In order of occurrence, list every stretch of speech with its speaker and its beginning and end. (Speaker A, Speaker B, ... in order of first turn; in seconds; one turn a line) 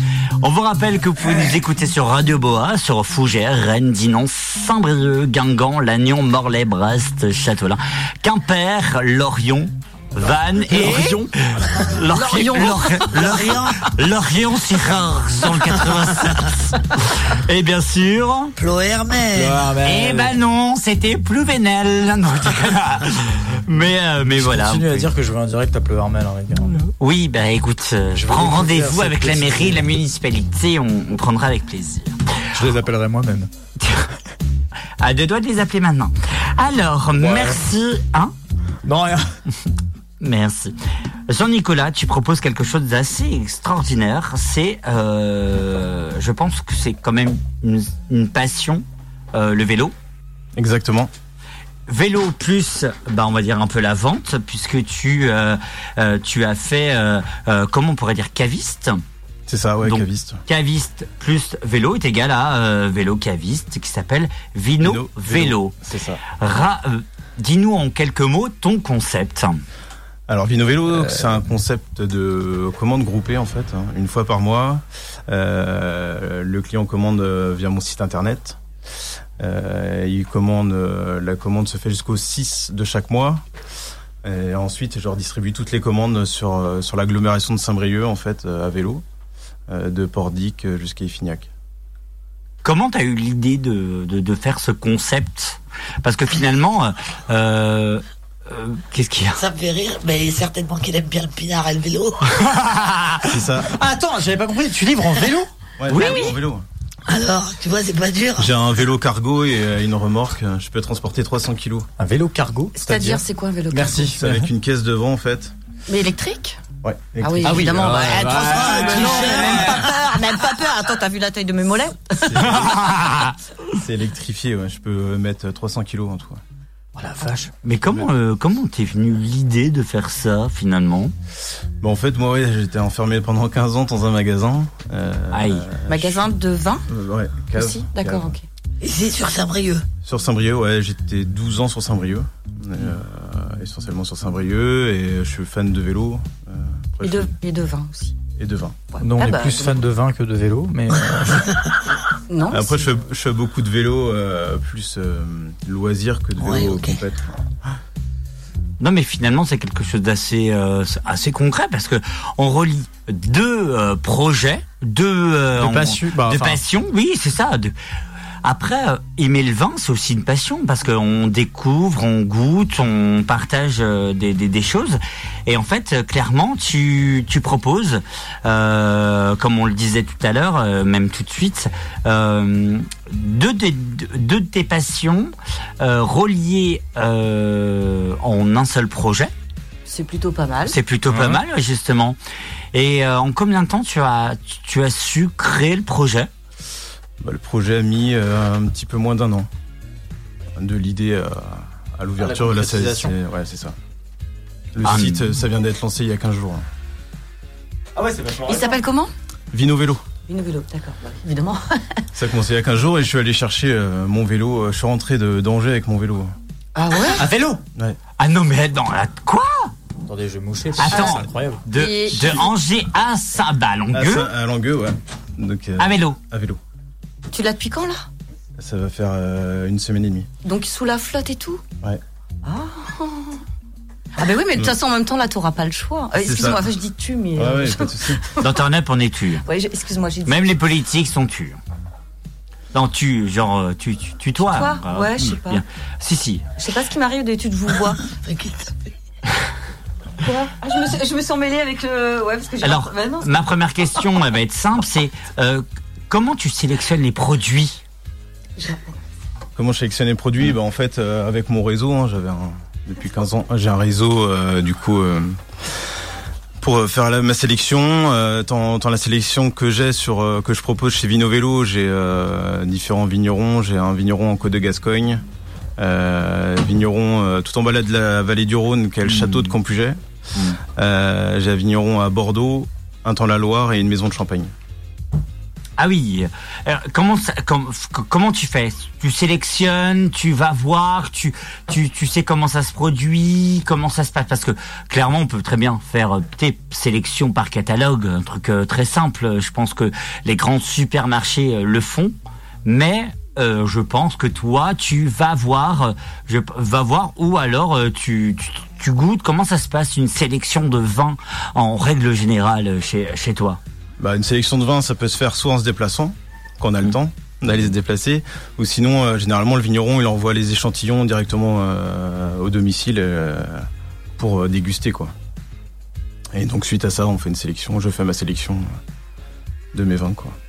Speaker A: 0.4-18.5
Speaker B: 10.8-11.1
Speaker C: 12.1-13.9
Speaker C: 18.6-19.6
Speaker D: 19.3-20.3
Speaker A: 19.8-25.1
Speaker D: 24.3-26.8
Speaker A: 26.9-32.1
Speaker D: 28.1-29.9
Speaker D: 32.5-33.5
Speaker A: 33.8-34.1
Speaker A: 35.0-38.3
Speaker D: 37.2-37.6
Speaker D: 38.9-39.3
Speaker A: 40.2-40.7
Speaker A: 41.3-49.9
Speaker E: 50.6-51.1
Speaker A: 51.9-59.0
Speaker E: 59.5-60.4
Speaker A: 59.9-65.7
Speaker E: 64.8-66.2
Speaker A: 66.4-69.6
Speaker E: 70.3-78.6
Speaker E: 79.4-83.4
Speaker E: 84.2-89.0
Speaker E: 89.7-91.5
Speaker A: 92.6-99.4
Speaker C: 99.3-102.3
Speaker A: 102.6-103.3
Speaker E: 103.3-103.7
Speaker D: 103.7-105.5
Speaker E: 105.8-106.7
Speaker A: 105.9-106.3
Speaker B: 106.0-106.3
Speaker C: 107.1-108.5
Speaker E: 108.4-111.9
Speaker D: 112.0-114.5
Speaker B: 112.8-114.1
Speaker E: 114.2-115.5
Speaker B: 115.9-116.6
Speaker E: 116.8-118.1
Speaker B: 117.2-122.4
Speaker D: 117.4-119.9
Speaker C: 118.2-119.7
Speaker E: 122.2-122.9
Speaker A: 122.7-123.3
Speaker E: 123.7-126.4
Speaker D: 127.0-127.5
Speaker A: 127.6-131.1
Speaker E: 131.8-136.3
Speaker A: 135.3-135.7
Speaker B: 135.9-136.9
Speaker E: 136.9-138.4
Speaker B: 137.6-138.4
Speaker C: 138.8-139.8
Speaker E: 140.0-147.3
Speaker B: 147.0-148.2
Speaker E: 148.4-148.8
Speaker B: 148.9-149.8
Speaker D: 149.0-151.5
Speaker B: 152.3-152.9
Speaker E: 152.5-157.7
Speaker C: 156.4-157.0
Speaker A: 158.8-167.7
Speaker D: 165.6-166.6
Speaker A: 168.4-189.3
Speaker B: 189.9-190.8
Speaker A: 190.7-192.2
Speaker D: 191.1-191.4
Speaker A: 192.7-196.3
Speaker E: 197.2-199.5
Speaker E: 200.6-203.8
Speaker D: 202.2-203.1
Speaker E: 204.8-206.7
Speaker A: 204.8-205.2
Speaker D: 208.0-208.8
Speaker B: 208.5-209.1
Speaker E: 209.5-210.0
Speaker B: 210.3-212.0
Speaker E: 212.2-216.3
Speaker B: 216.8-217.3
Speaker D: 217.2-217.6
Speaker A: 218.2-219.7
Speaker D: 220.1-221.6
Speaker A: 220.8-224.3
Speaker B: 220.8-221.2
Speaker B: 221.7-222.5
Speaker E: 223.9-226.6
Speaker A: 225.8-226.2
Speaker B: 227.3-228.1
Speaker E: 228.6-230.3
Speaker B: 230.4-231.6
Speaker B: 232.4-233.4
Speaker B: 234.2-238.5
Speaker E: 236.2-236.7
Speaker E: 237.3-238.2
Speaker A: 238.4-239.4
Speaker B: 239.5-240.6
Speaker A: 240.3-241.6
Speaker A: 242.7-246.4
Speaker B: 244.4-245.6
Speaker B: 246.6-248.1
Speaker C: 248.2-248.7
Speaker B: 250.2-253.3
Speaker A: 252.6-257.8
Speaker B: 258.6-258.9
Speaker E: 259.6-265.4
Speaker E: 266.6-275.2
Speaker E: 275.8-280.0
Speaker E: 280.8-284.5
Speaker A: 285.8-302.1
Speaker A: 302.6-313.6
Speaker E: 314.0-323.6
Speaker E: 324.2-325.1
Speaker E: 326.3-328.7
Speaker E: 329.7-330.4